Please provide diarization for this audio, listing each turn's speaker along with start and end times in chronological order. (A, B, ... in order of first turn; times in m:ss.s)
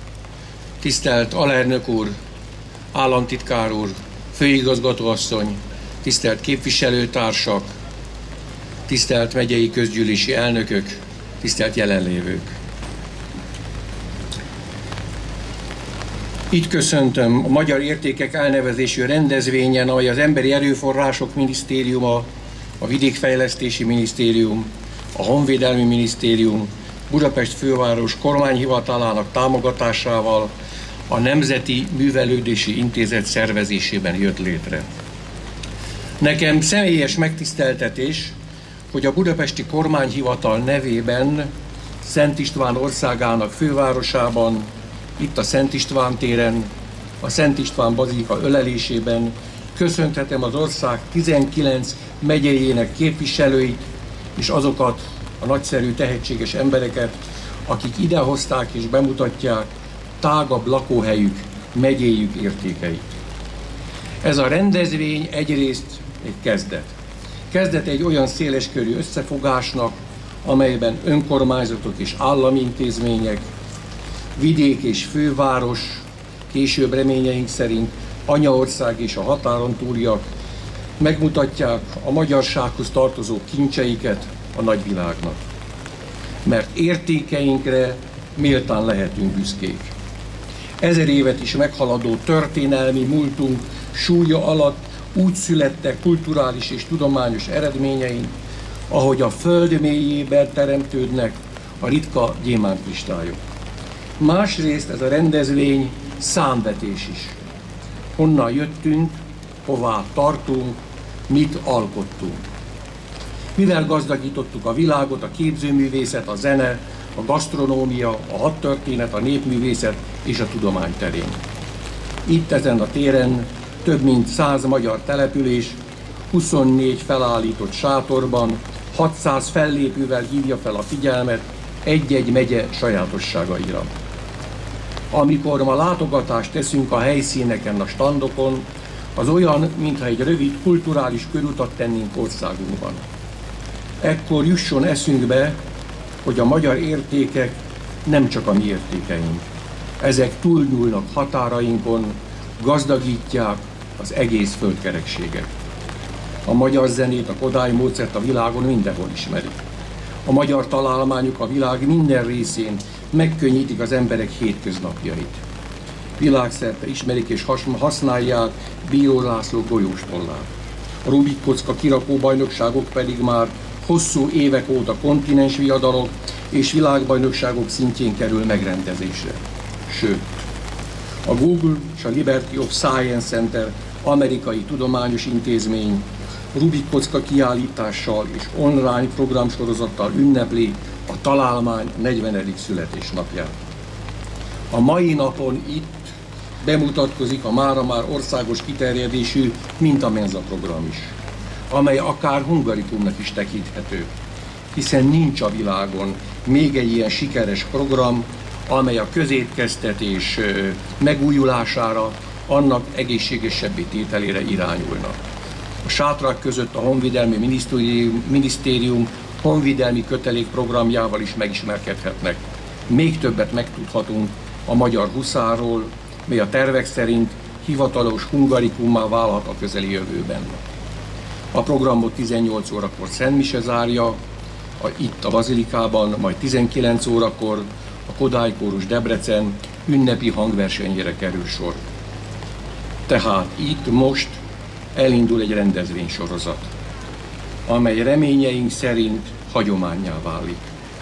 0:00.8-0:02.1 A
0:02.9-0:07.6 A
0:08.9-0:12.5 A
0:16.5-0:22.3 A
0:22.8-0:30.5 A
0:31.1-0:34.9 A
0:36.2-0:38.4 A
0:38.9-0:41.5 A
0:42.0-0:46.7 A
0:47.2-0:53.8 A
0:54.4-0:57.1 A
0:57.7-0:59.7 A
1:00.2-1:03.0 A
1:04.2-1:06.9 A
1:07.5-1:13.4 A
1:14.4-1:20.2 A
1:21.0-1:25.4 A
1:26.4-1:29.9 A
1:30.8-1:38.3 A
1:38.9-1:43.4 A
1:44.2-1:47.4 A
1:48.2-1:50.8 A
1:51.3-1:52.4 A
1:53.6-2:01.4 A
2:02.3-2:05.8 A
2:06.3-2:13.9 A
2:15.1-2:23.0 A
2:24.0-2:25.6 A
2:26.2-2:27.5 A
2:28.0-2:29.4 A
2:30.0-2:35.5 A
2:36.5-2:39.6 A
2:40.2-2:45.4 A
2:46.2-2:50.5 A
2:51.0-3:00.4 A
3:01.2-3:13.5 A
3:14.7-3:16.1 A
3:16.6-3:21.1 A
3:21.7-3:24.1 A
3:24.7-3:35.2 A
3:35.8-3:50.6 A
3:51.5-3:54.2 A
3:54.8-4:01.8 A
4:03.1-4:04.4 A
4:05.0-4:06.6 A
4:07.7-4:10.6 A